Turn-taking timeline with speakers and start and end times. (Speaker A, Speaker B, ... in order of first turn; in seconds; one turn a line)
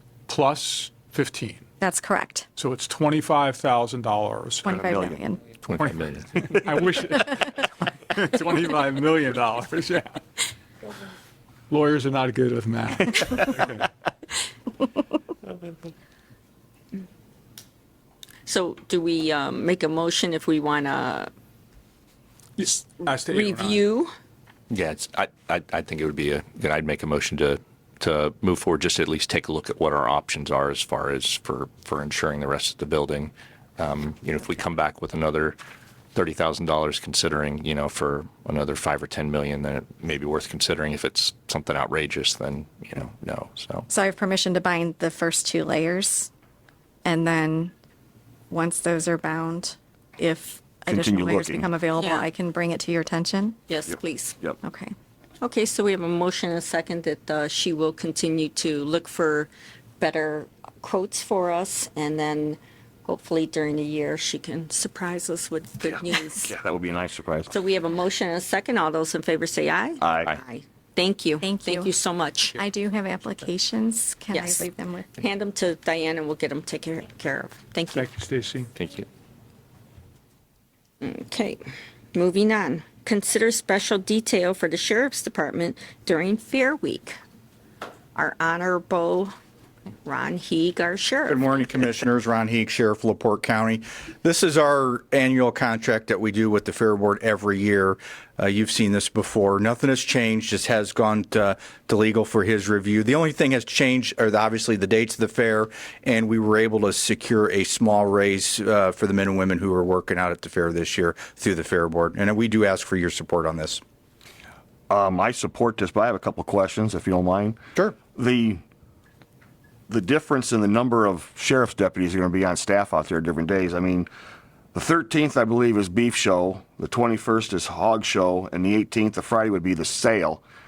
Speaker A: 0.3-1.6
Speaker B: 1.8-2.5
Speaker A: 2.5-4.7
Speaker B: 4.6-5.4
Speaker C: 4.8-5.1
Speaker D: 5.7-6.4
Speaker A: 5.7-10.2
Speaker A: 11.7-13.9
Speaker E: 18.4-21.3
Speaker A: 22.6-23.8
Speaker E: 22.8-24.1
Speaker D: 24.7-35.6
Speaker D: 36.1-43.9
Speaker B: 43.9-46.3
Speaker B: 47.0-47.7
Speaker B: 48.5-53.6
Speaker C: 50.9-51.7
Speaker E: 52.0-52.2
Speaker E: 53.7-54.4
Speaker B: 54.6-54.9
Speaker E: 55.4-66.5
Speaker C: 66.4-67.5
Speaker E: 67.5-72.6
Speaker C: 70.0-70.3
Speaker B: 71.4-71.9
Speaker B: 72.5-75.1
Speaker E: 74.3-78.1
Speaker A: 78.0-78.7
Speaker D: 78.7-79.0
Speaker E: 81.0-81.6
Speaker E: 82.1-87.2
Speaker E: 88.1-89.3
Speaker E: 90.0-91.5
Speaker F: 91.3-113.8
Speaker C: 114.9-118.6
Speaker C: 119.9-124.1
Speaker C: 124.7-130.4